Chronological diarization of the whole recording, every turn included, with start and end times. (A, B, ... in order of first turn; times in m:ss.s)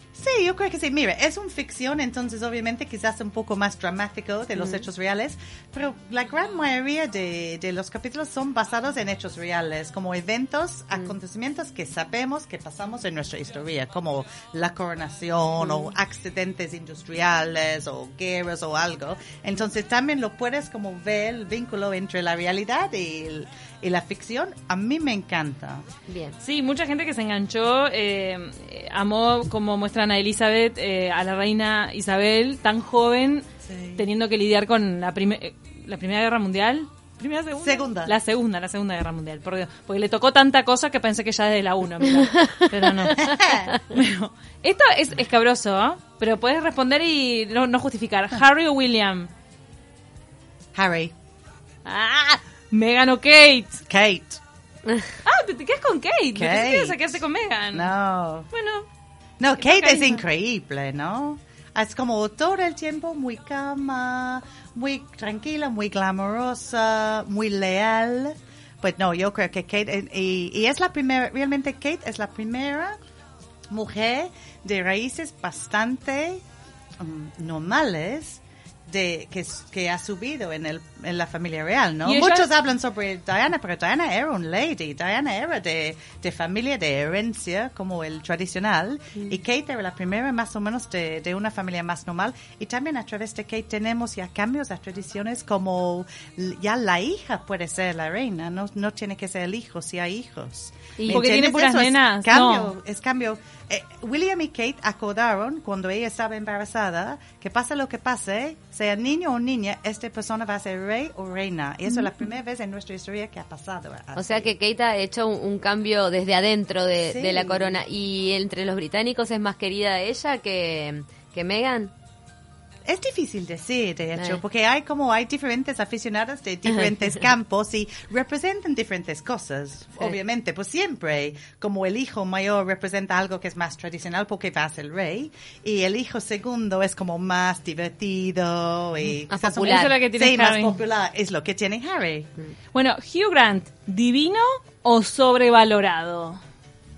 0:00.2-0:25.9 A
0:26.1-0:26.4 B
0:26.4-0:49.3 C
0:33.6-0:34.0 A
0:37.6-0:38.2 A
0:42.2-0:43.4 B
0:43.2-0:43.7 A
0:50.8-0:51.1 A
0:51.8-0:53.8 C
0:53.9-0:54.4 A
0:55.3-0:57.9 C
0:56.4-0:57.1 A
0:57.7-0:58.5 A
0:58.5-0:58.9 C
0:59.4-1:13.0 A
0:59.6-1:00.2 C
1:13.7-1:16.4 A
1:17.0-1:54.5 A
1:22.0-1:22.5 C
1:41.0-1:41.3 B
1:41.1-1:42.7 C
1:54.2-2:01.9 B
1:57.0-1:57.8 A
2:02.9-2:22.3 A
2:19.3-2:20.0 B
2:19.6-2:20.8 C
2:22.7-2:26.4 C